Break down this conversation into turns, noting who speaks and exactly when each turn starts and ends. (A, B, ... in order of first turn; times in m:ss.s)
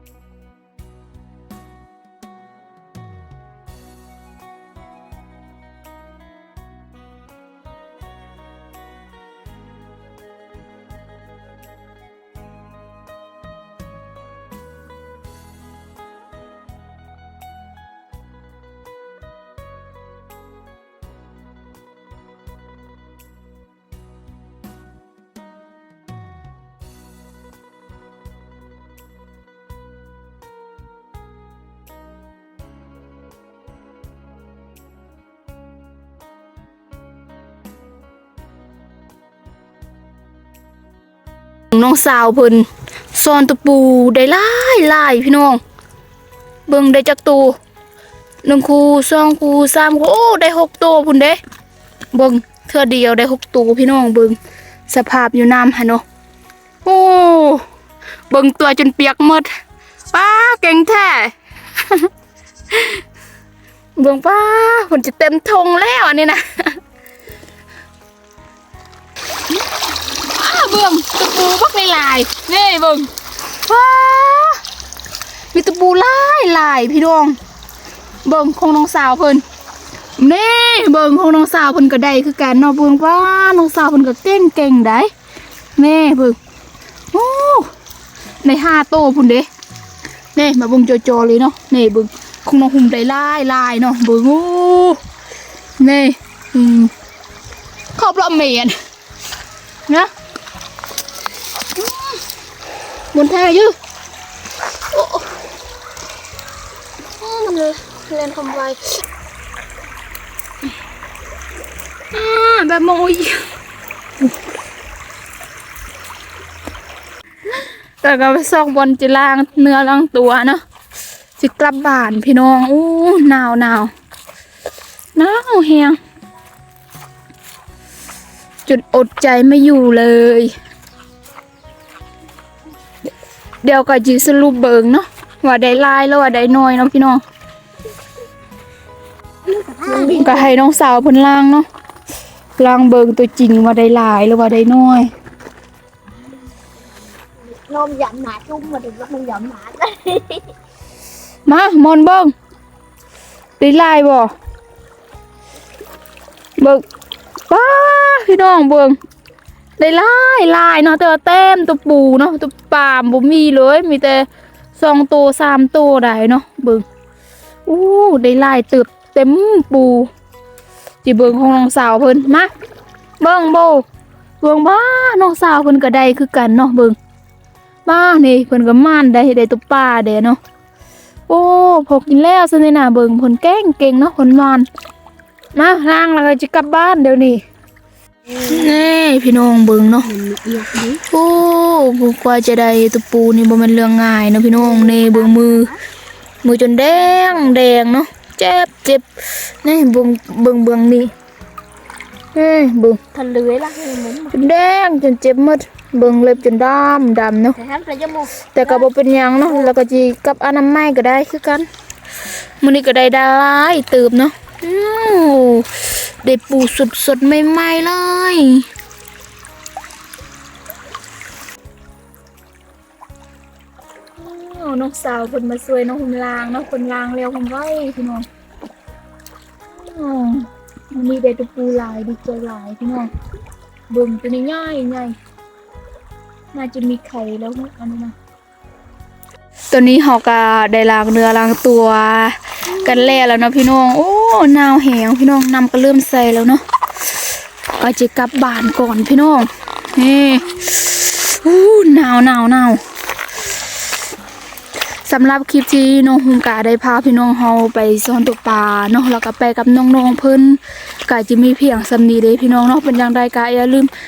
0:41.7-0:45.6 A
0:46.7-0:47.6 A
0:48.4-0:51.4 A
0:52.1-0:56.0 A
0:56.8-0:57.6 A
0:58.3-0:59.5 A
1:00.1-1:02.1 A
1:02.7-1:03.0 A
1:04.0-1:06.8 A
1:10.2-1:14.6 A
1:15.5-1:17.4 A
1:18.2-1:19.4 A
1:20.2-1:25.1 A
1:25.8-1:26.4 A
1:27.1-1:27.7 A
1:28.4-1:29.5 A
1:30.4-1:35.0 A
1:35.8-1:36.9 A
1:38.0-1:38.8 A
1:41.8-1:42.1 A
1:43.1-1:43.8 A
1:44.9-1:45.4 A
1:47.2-1:49.0 A
1:52.1-1:53.5 A
1:58.0-2:00.6 A
2:01.4-2:03.9 A
2:05.2-2:06.0 A
2:08.7-2:10.5 A
2:13.6-2:17.2 A
2:19.5-2:20.5 B
2:19.9-2:21.7 A
2:22.6-2:25.1 A
2:27.2-2:30.4 B
2:31.5-2:32.3 A
2:33.6-2:34.3 A
2:36.6-2:36.8 A
2:37.5-2:39.0 A
2:39.8-2:46.8 A
2:47.7-2:50.1 A
2:51.0-2:52.5 A
2:53.2-2:53.9 A
2:54.4-2:57.0 A
2:57.9-3:00.4 A
3:01.3-3:04.7 A
3:05.6-3:07.4 A
3:08.4-3:10.1 A
3:10.1-3:11.0 B
3:11.0-3:15.8 A
3:14.6-3:15.8 B
3:16.4-3:21.1 A
3:22.3-3:23.1 A
3:23.1-3:24.3 B
3:24.3-3:27.6 A
3:27.6-3:28.8 B
3:28.5-3:31.7 A
3:32.6-3:38.7 A
3:44.2-3:48.3 A
3:49.7-3:53.1 A
3:53.9-3:55.2 A
3:56.5-3:58.2 A
3:59.7-4:06.6 A
4:07.7-4:12.8 A
4:15.0-4:23.9 A